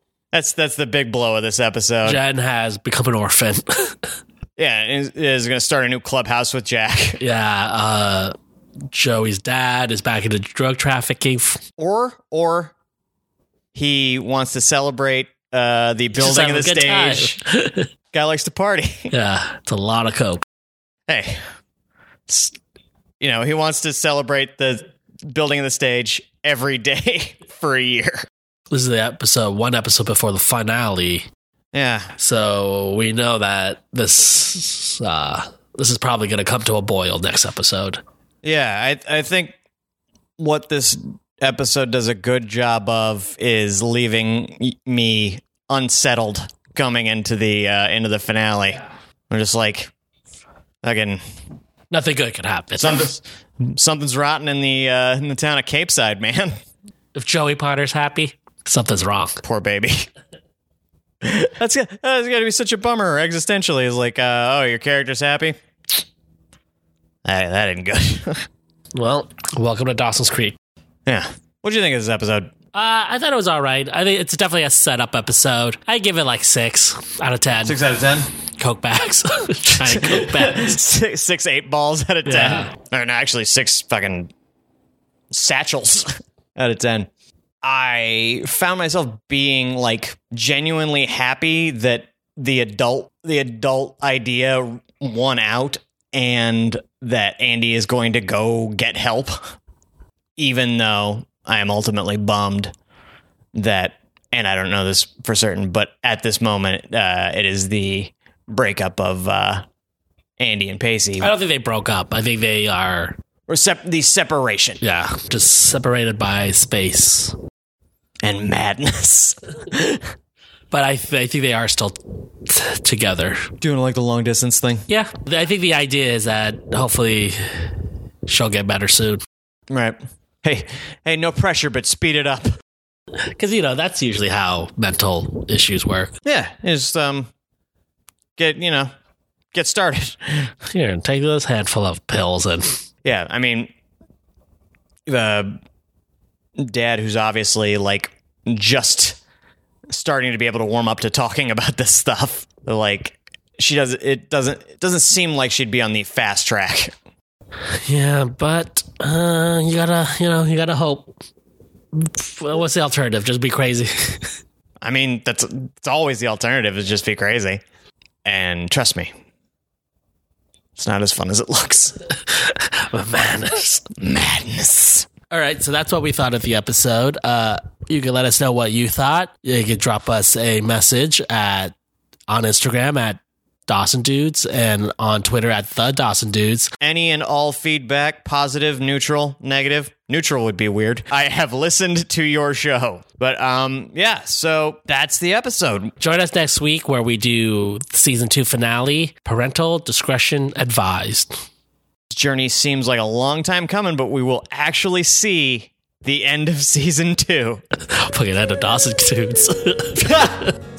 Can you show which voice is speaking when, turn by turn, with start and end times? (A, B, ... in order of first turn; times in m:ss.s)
0:00.3-0:02.2 A
0:02.0-0:04.1 B
0:04.6-0:07.2 A
0:07.2-0:08.3 B
0:08.9-0:11.6 B
0:11.8-0:12.7 A
0:13.7-0:17.4 A
0:16.1-0:17.9 B
0:18.1-0:19.1 A
0:19.1-0:20.4 B
0:21.1-0:21.4 A
0:22.3-0:22.5 A
0:23.2-0:28.3 A
0:28.7-0:31.2 B
0:31.7-0:32.1 A
0:32.2-0:38.0 B
0:38.4-0:39.5 A
0:40.4-0:49.9 A
0:50.8-0:51.2 A
0:51.9-0:53.0 B
0:52.8-0:56.5 A
0:57.1-0:59.4 B
0:59.4-1:00.1 A
1:01.2-1:05.6 A
1:07.2-1:08.4 A
1:08.9-1:10.6 B
1:11.0-1:12.5 A
1:12.7-1:17.8 B
1:17.6-1:18.3 A
1:18.6-1:20.8 B
1:19.8-1:24.3 A
1:22.2-1:22.7 B
1:25.3-1:27.1 A
1:27.6-1:39.5 A
1:40.4-1:42.7 A
1:43.5-1:49.6 A
1:50.4-1:51.3 A
1:51.2-1:53.2 B
1:53.5-1:54.8 A
1:54.8-1:57.4 B
1:58.2-2:00.0 A
2:00.7-2:03.5 B
2:03.6-2:04.8 A
2:04.9-2:09.2 B
2:09.7-2:12.6 A
2:13.2-2:16.1 B
2:16.2-2:17.3 A
2:18.4-2:18.9 A
2:19.5-2:20.5 A
2:20.7-2:22.8 B
2:23.0-2:23.7 A
2:25.1-2:25.6 A
2:26.6-2:29.2 A
2:29.9-2:36.9 A
2:37.8-2:41.1 B
2:41.9-2:44.4 B
2:44.8-2:47.6 A
2:48.2-2:49.1 A
2:50.8-2:52.0 A
2:52.1-2:53.9 B
2:54.0-2:55.1 A
2:55.3-3:01.7 B
3:02.3-3:06.7 B
3:06.8-3:15.9 A
3:16.0-3:21.4 B
3:22.1-3:27.6 A
3:27.8-3:30.5 B
3:30.0-3:30.4 A